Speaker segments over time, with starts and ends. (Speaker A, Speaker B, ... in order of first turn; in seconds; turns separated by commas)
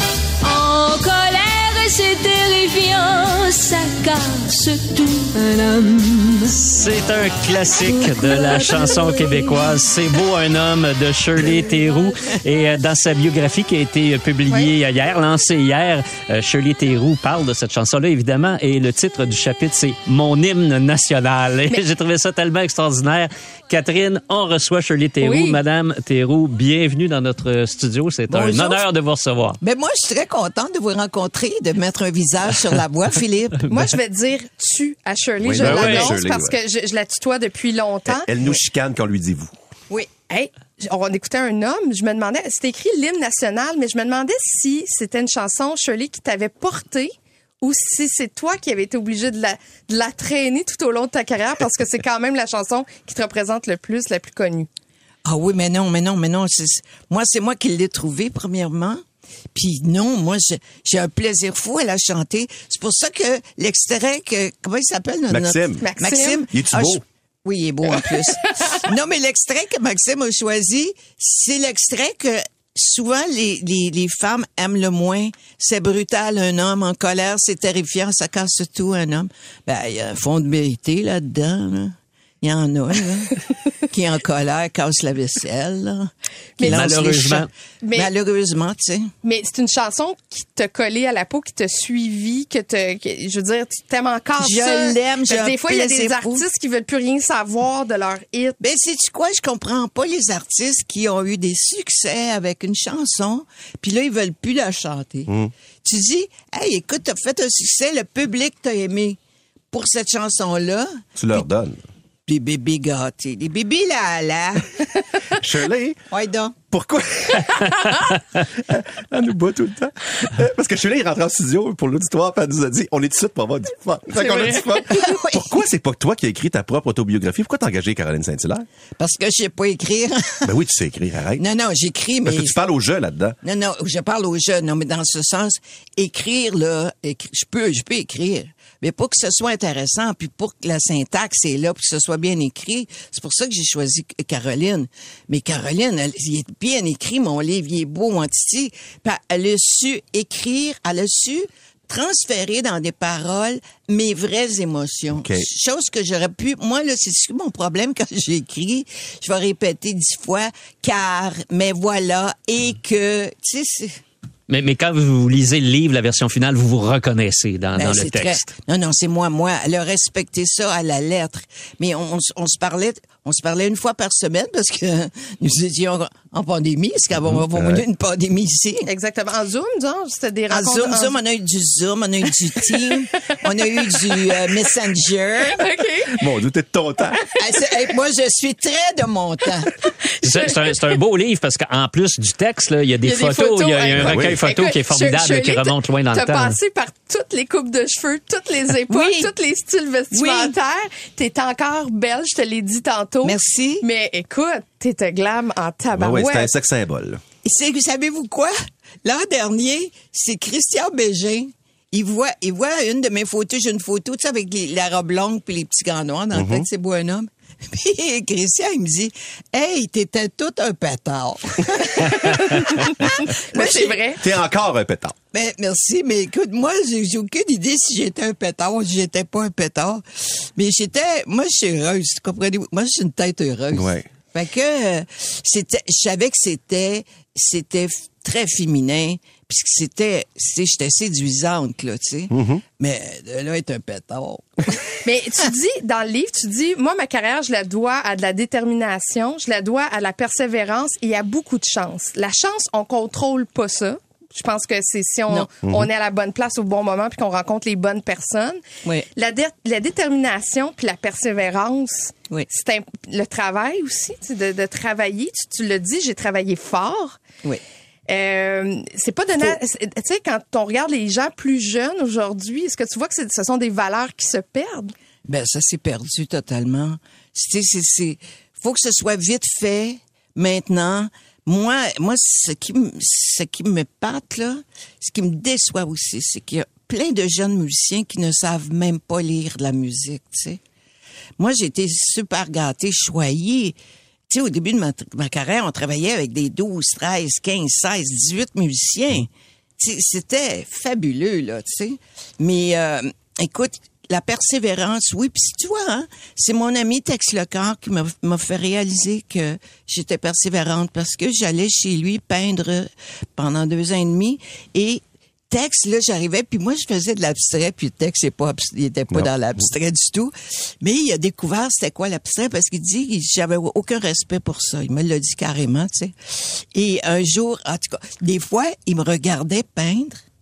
Speaker A: 0.4-6.8, Speaker B: 6.6-29.6, Speaker A: 7.7-10.2, Speaker C: 25.2-25.6, Speaker D: 28.3-28.8, Speaker D: 29.6-33.7, Speaker C: 33.7-38.3, Speaker E: 35.4-36.5, Speaker B: 35.6-36.1, Speaker D: 35.7-36.0, Speaker E: 38.0-39.5, Speaker D: 39.9-40.2, Speaker C: 40.3-54.7, Speaker D: 55.2-59.0, Speaker D: 59.5-89.1, Speaker E: 65.3-67.0, Speaker C: 65.8-66.5, Speaker C: 68.0-68.5, Speaker B: 86.6-87.5, Speaker C: 87.8-88.1, Speaker C: 89.2-98.6, Speaker D: 94.4-96.4, Speaker D: 98.6-105.3, Speaker D: 105.8-109.2, Speaker D: 109.7-111.4, Speaker E: 111.2-111.8, Speaker D: 112.3-114.9, Speaker E: 115.3-116.0, Speaker D: 116.1-116.5, Speaker E: 116.7-118.0, Speaker E: 118.7-128.7, Speaker C: 124.2-125.0, Speaker D: 124.5-125.5, Speaker D: 129.0-130.5, Speaker E: 130.4-131.4, Speaker D: 131.4-132.6, Speaker E: 132.2-133.4, Speaker D: 133.4-164.0, Speaker E: 155.2-155.5, Speaker B: 164.5-168.5, Speaker D: 167.8-178.9, Speaker E: 177.2-177.8, Speaker C: 178.8-181.2, Speaker D: 180.5-185.6, Speaker C: 182.6-183.0, Speaker C: 183.8-184.2, Speaker C: 185.4-186.3, Speaker E: 186.1-187.3, Speaker D: 187.4-189.8, Speaker B: 190.2-196.6, Speaker C: 190.3-190.6, Speaker C: 193.0-206.5, Speaker E: 194.0-194.4, Speaker D: 198.9-199.3, Speaker D: 200.1-200.5, Speaker D: 203.2-203.8, Speaker E: 205.9-207.2, Speaker D: 207.4-224.1, Speaker E: 216.3-216.7, Speaker C: 222.1-222.5, Speaker C: 223.5-224.2, Speaker E: 224.2-225.2, Speaker D: 225.3-230.0, Speaker D: 230.6-245.4, Speaker E: 233.7-234.1, Speaker E: 242.3-242.6, Speaker C: 245.0-258.6, Speaker E: 255.6-255.9, Speaker C: 259.1-267.2, Speaker C: 268.1-274.9, Speaker D: 275.3-290.6, Speaker D: 291.4-293.8, Speaker D: 294.3-330.2, Speaker E: 319.1-319.6